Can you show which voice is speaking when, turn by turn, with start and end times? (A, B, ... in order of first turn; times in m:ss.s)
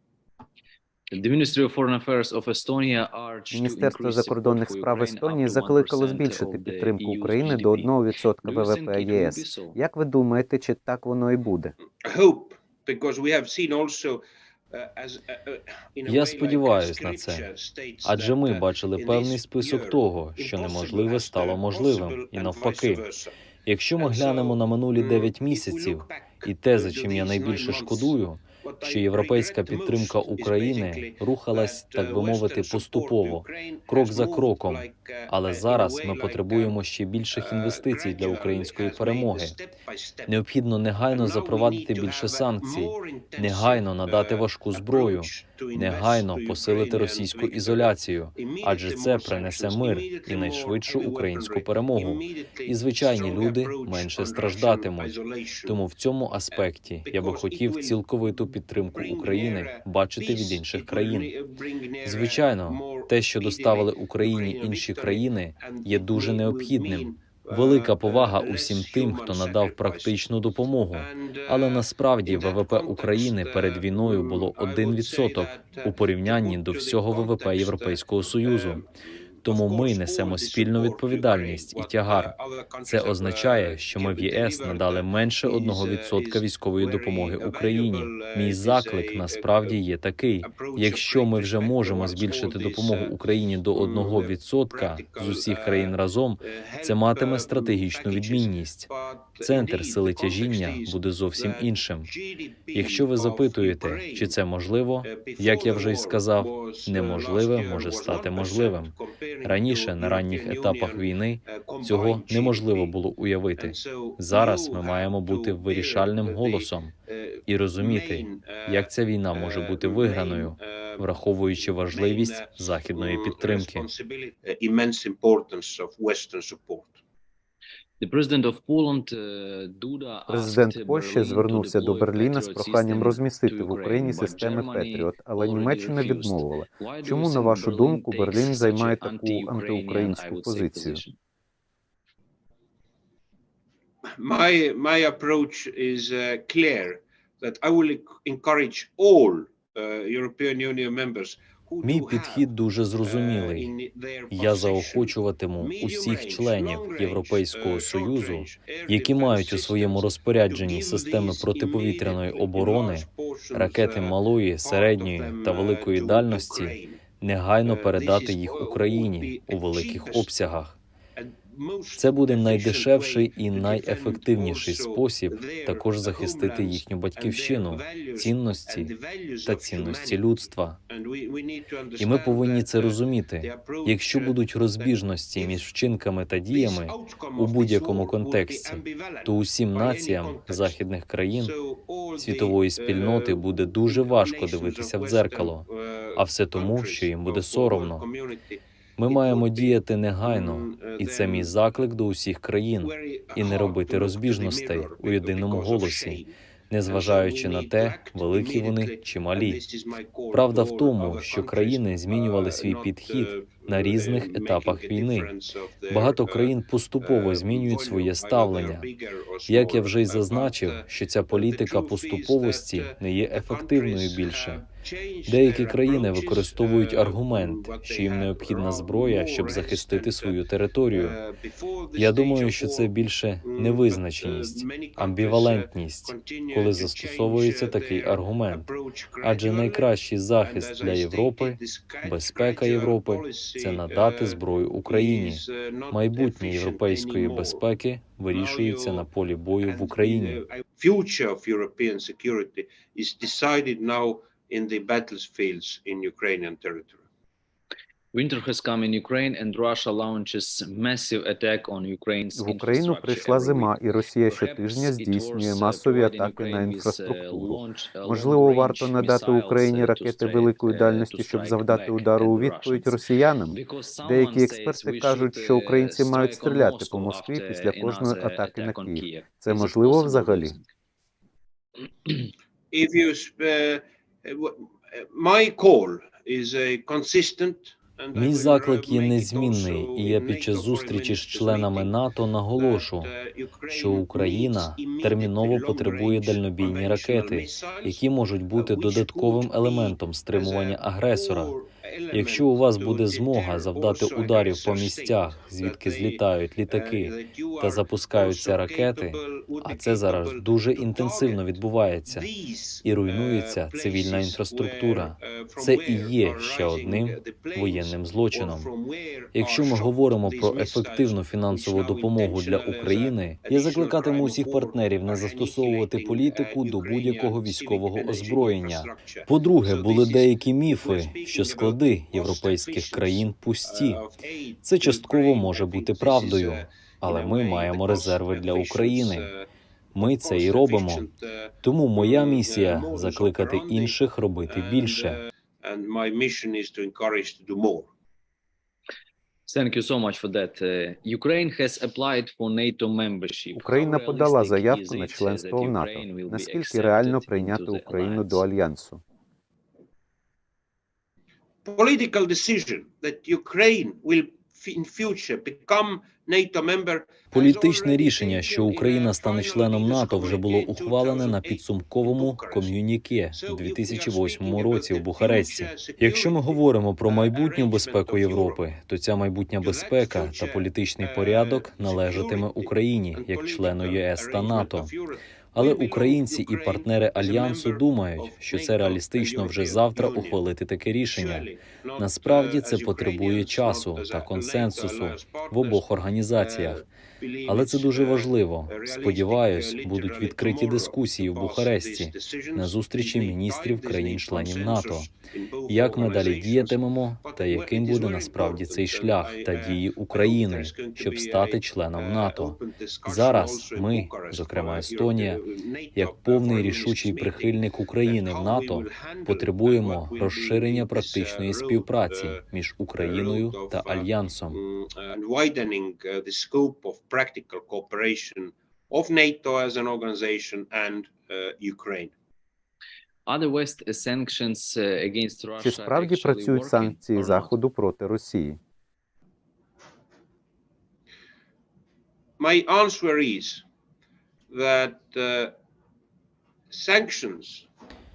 0:01.1-0:09.8 A
0:03.5-0:11.7 B
0:12.0-0:23.3 C
0:16.0-0:17.5 D
0:18.0-0:23.0 D
0:23.6-0:39.6 D
0:24.0-0:36.8 C
0:37.3-0:40.4 C
0:40.3-1:01.3 D
0:41.1-0:55.8 C
0:56.5-1:10.2 C
1:02.0-1:18.8 D
1:10.9-1:18.9 C
1:19.4-1:29.8 C
1:19.4-1:38.9 D
1:30.4-1:33.2 C
1:33.7-1:44.4 C
1:39.4-1:42.1 D
1:42.7-1:56.9 D
1:45.0-1:53.0 C
1:53.6-2:07.0 C
1:57.5-2:03.9 D
2:08.0-2:21.1 A
2:10.3-2:21.0 B
2:24.2-2:47.0 C
2:31.8-2:33.7 D
2:34.3-2:50.8 D
2:47.6-2:50.3 C
2:51.2-3:05.7 C
2:52.0-2:58.9 D
2:59.4-3:00.8 D
3:02.0-3:11.5 D
3:06.5-3:21.6 C
3:12.2-3:18.0 D
3:19.0-3:29.6 D
3:22.8-3:26.3 C
3:26.9-4:07.7 C
3:30.3-3:35.3 D
3:35.9-3:38.9 D
3:39.5-3:44.7 D
3:45.3-3:51.2 D
3:52.0-3:58.7 D
3:59.2-4:10.4 D
4:08.3-4:09.1 C
4:09.6-4:17.0 C
4:18.1-4:40.6 A
4:22.4-4:40.5 B
4:42.7-4:52.0 C
4:48.1-4:53.1 D
4:52.6-5:11.5 C
4:53.7-5:01.5 D
5:02.1-5:12.3 D
5:12.1-5:47.9 C
5:12.8-5:18.7 D
5:19.3-5:34.0 D
5:34.6-5:39.3 D
5:39.9-5:41.1 D
5:41.6-5:45.2 D
5:49.5-5:58.4 A
5:53.5-5:59.0 B
6:01.6-6:12.8 C
6:07.3-6:24.9 D
6:13.3-6:18.6 C
6:19.6-6:30.4 C
6:25.5-6:31.5 D
6:31.1-7:02.4 C
6:32.0-6:36.8 D
6:37.5-6:45.1 D
6:45.7-6:55.4 D
6:55.9-7:04.6 D
7:03.0-7:12.1 C
7:13.2-7:17.5 A
7:15.6-7:18.6 B
7:22.4-7:23.6 C
7:24.5-7:25.5 C
7:26.7-7:27.7 C